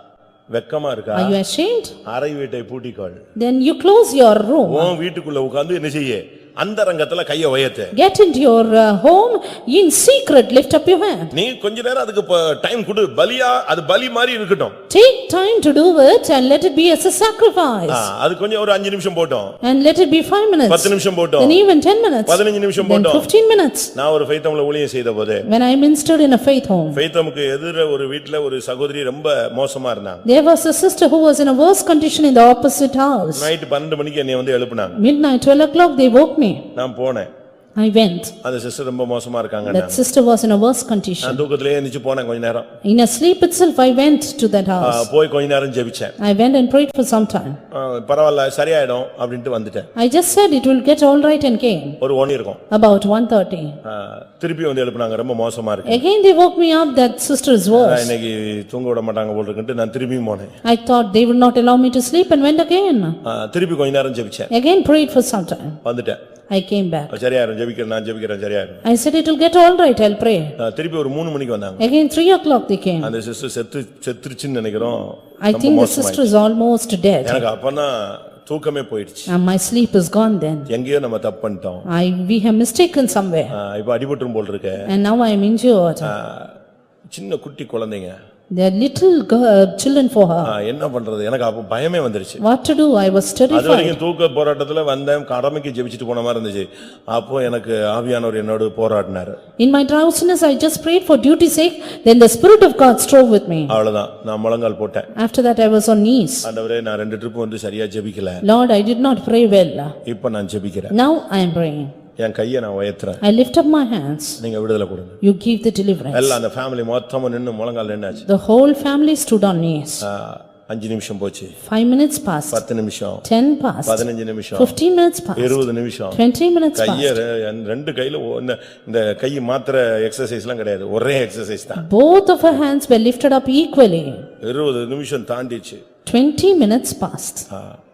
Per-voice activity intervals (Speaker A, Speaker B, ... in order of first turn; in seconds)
Speaker A: 0.5-1.4, 2.0-3.2, 4.7-7.9, 11.3-14.8, 17.9-19.6, 20.7-21.6, 22.3-23.3, 23.9-25.4, 26.9-30.2, 33.3-35.0, 36.7-37.3, 38.4-40.0, 41.2-42.7, 44.8-46.1, 47.7-49.9, 52.0-52.6, 53.8-56.0, 57.7-60.5, 63.2-64.5, 65.8-66.2, 67.1-68.8, 70.6-71.9, 73.0-76.3, 77.2-79.3, 80.7-81.8, 83.5-84.9, 86.0-86.6, 87.1-88.1, 90.4-92.4, 93.5-99.4, 103.7-105.1, 106.4-108.4, 110.0-110.9, 112.2-113.2, 114.4-115.2, 116.1-118.2, 120.0-121.5, 122.5-123.2, 123.8-124.8, 125.4-126.2, 126.7-131.8, 134.4-135.8, 137.5-137.8
Speaker B: 1.1-1.9, 3.4-4.9, 7.9-11.3, 14.9-18.1, 19.6-23.9, 25.5-27.0, 30.2-33.5, 35.0-36.7, 37.8-38.3, 39.6-41.4, 42.8-45.1, 46.2-47.6, 50.0-52.0, 52.7-53.8, 55.9-58.1, 60.6-63.2, 64.5-65.8, 66.5-67.1, 68.8-70.5, 71.8-73.1, 75.4-77.4, 79.3-80.7, 81.9-83.5, 84.9-86.1, 88.5-90.5, 92.4-94.0, 99.6-103.7, 105.2-106.5, 108.4-109.9, 110.9-111.9, 113.2-114.4, 115.2-116.4, 118.2-120.0, 121.6-122.6, 123.2-127.2, 131.8-134.2, 136.1-137.4